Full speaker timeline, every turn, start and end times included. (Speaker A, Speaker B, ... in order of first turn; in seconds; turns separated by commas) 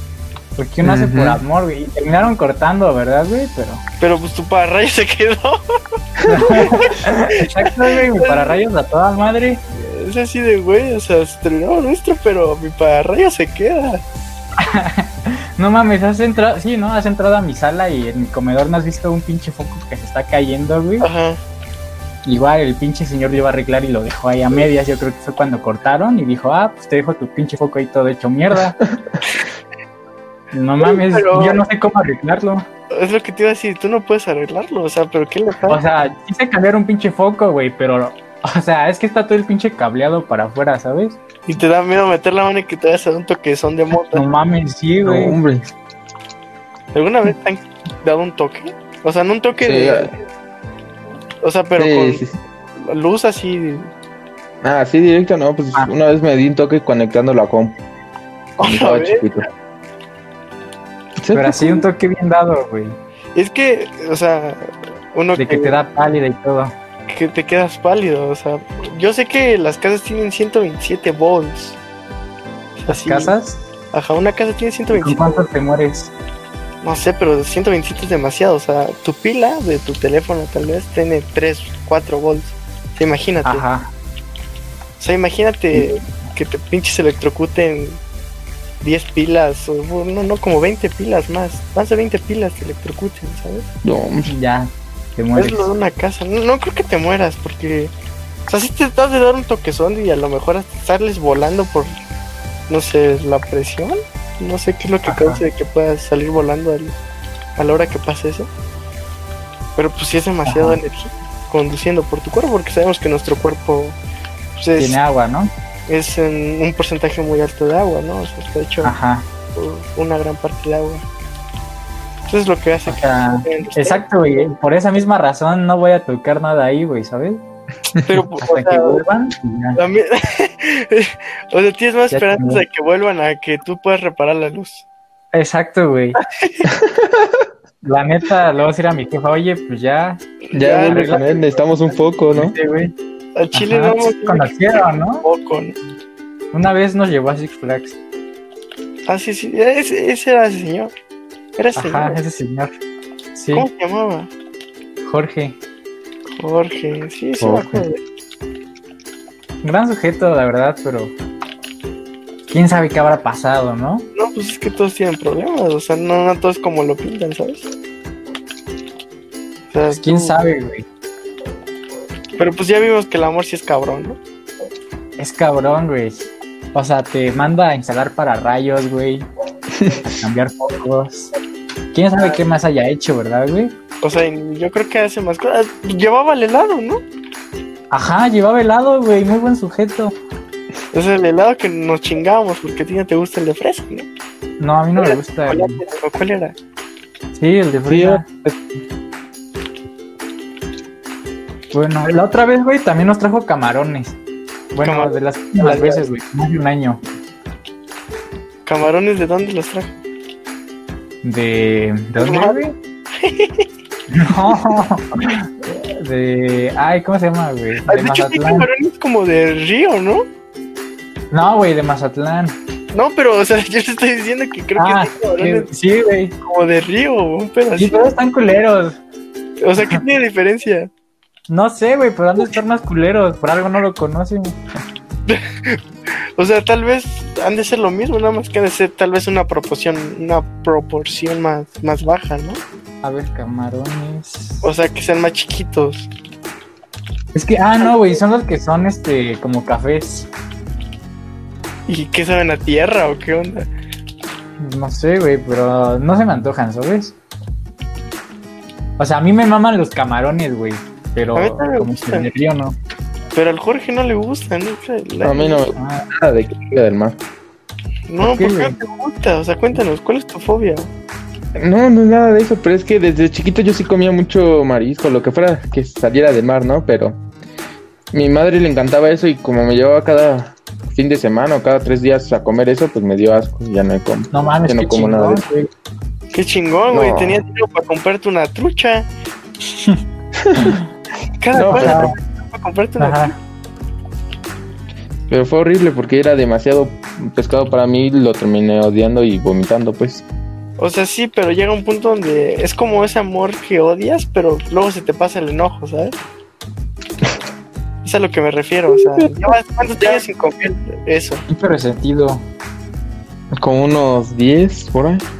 Speaker A: 0.6-3.8, Speaker B: 0.8-1.4, Speaker C: 4.0-5.6, Speaker C: 6.3-8.6, Speaker A: 6.3-9.6, Speaker C: 9.8-14.0, Speaker A: 14.6-21.1, Speaker C: 21.0-21.4, Speaker A: 22.2-28.8, Speaker A: 30.5-32.7, Speaker C: 30.8-31.6, Speaker C: 32.9-35.8, Speaker A: 35.7-41.2, Speaker C: 41.5-44.2, Speaker A: 44.1-45.4, Speaker B: 45.0-45.7, Speaker C: 46.9-50.2, Speaker B: 49.6-50.1, Speaker C: 51.4-52.2, Speaker B: 51.8-52.4, Speaker C: 52.8-53.9, Speaker B: 54.6-57.8, Speaker C: 58.6-59.3, Speaker B: 58.6-59.5, Speaker B: 61.2-61.9, Speaker A: 61.3-63.0, Speaker C: 63.4-65.8, Speaker A: 65.3-66.7, Speaker C: 67.1-71.8, Speaker C: 72.8-73.3, Speaker A: 72.9-73.6, Speaker C: 73.9-75.5, Speaker A: 74.9-76.1, Speaker C: 76.8-83.6, Speaker A: 83.5-83.9, Speaker C: 85.0-88.0, Speaker C: 88.8-93.7, Speaker B: 93.8-94.3, Speaker A: 94.3-95.7, Speaker C: 95.4-97.9, Speaker C: 98.5-102.0, Speaker C: 102.7-107.0, Speaker A: 105.1-105.4, Speaker C: 107.6-108.5, Speaker C: 109.8-114.0, Speaker A: 110.5-110.8, Speaker C: 114.6-115.0, Speaker A: 114.8-115.5, Speaker C: 115.9-118.9, Speaker A: 118.8-119.3, Speaker C: 119.5-121.0, Speaker C: 122.3-124.0, Speaker A: 122.9-127.4, Speaker C: 128.0-129.0, Speaker A: 128.4-129.8, Speaker C: 129.8-134.8, Speaker A: 132.1-132.6, Speaker A: 135.3-136.2, Speaker C: 136.2-136.7, Speaker B: 136.7-137.4, Speaker A: 137.8-140.2, Speaker C: 140.5-141.7, Speaker B: 140.5-142.6, Speaker A: 140.8-141.3, Speaker A: 142.3-142.9, Speaker C: 143.4-144.6, Speaker A: 143.5-145.2, Speaker C: 145.2-145.8, Speaker A: 146.5-148.0, Speaker C: 149.1-150.9, Speaker C: 151.6-152.2, Speaker A: 151.8-152.7, Speaker A: 153.3-153.7, Speaker C: 153.5-154.3, Speaker A: 155.0-155.6, Speaker C: 156.4-158.0, Speaker A: 157.4-157.8, Speaker A: 159.6-161.1, Speaker A: 162.5-164.1, Speaker C: 164.2-167.7, Speaker C: 169.7-170.4, Speaker A: 169.9-170.8, Speaker C: 172.4-174.2, Speaker A: 175.2-179.3, Speaker B: 179.7-180.2, Speaker A: 180.2-181.3, Speaker A: 181.9-183.8, Speaker C: 184.0-187.0, Speaker A: 187.9-190.2, Speaker C: 190.9-194.1, Speaker A: 194.6-195.8, Speaker C: 195.0-196.6, Speaker A: 197.3-198.3, Speaker B: 197.9-198.6, Speaker A: 201.7-204.2, Speaker A: 204.7-207.0, Speaker C: 204.8-206.0, Speaker C: 208.7-210.0, Speaker A: 211.2-212.8, Speaker C: 212.2-212.6, Speaker C: 213.2-213.7, Speaker A: 214.1-218.7, Speaker C: 217.8-220.2, Speaker A: 221.3-222.6, Speaker C: 222.9-225.7, Speaker A: 224.8-226.4, Speaker C: 226.4-228.1, Speaker A: 227.8-229.0, Speaker C: 229.6-230.9, Speaker A: 231.5-234.6, Speaker C: 235.3-235.8, Speaker C: 236.4-242.6, Speaker A: 243.0-244.7, Speaker C: 244.6-246.1, Speaker A: 247.3-250.3, Speaker C: 247.8-248.2, Speaker C: 251.9-253.7, Speaker A: 254.6-257.2, Speaker A: 259.0-262.8, Speaker C: 261.4-262.3, Speaker C: 263.3-265.7, Speaker B: 265.2-267.2, Speaker A: 265.8-266.1, Speaker C: 268.1-270.9, Speaker A: 268.2-268.8, Speaker B: 271.6-277.2, Speaker B: 278.1-285.4, Speaker A: 284.3-285.7, Speaker C: 286.3-289.1, Speaker B: 286.9-287.4, Speaker B: 290.4-290.8, Speaker A: 290.6-290.9, Speaker C: 291.4-293.3, Speaker B: 291.6-292.1, Speaker A: 291.6-292.2, Speaker A: 293.0-293.3, Speaker B: 295.3-300.2, Speaker C: 300.8-306.2, Speaker C: 308.0-311.4, Speaker A: 311.5-312.4, Speaker B: 313.6-315.2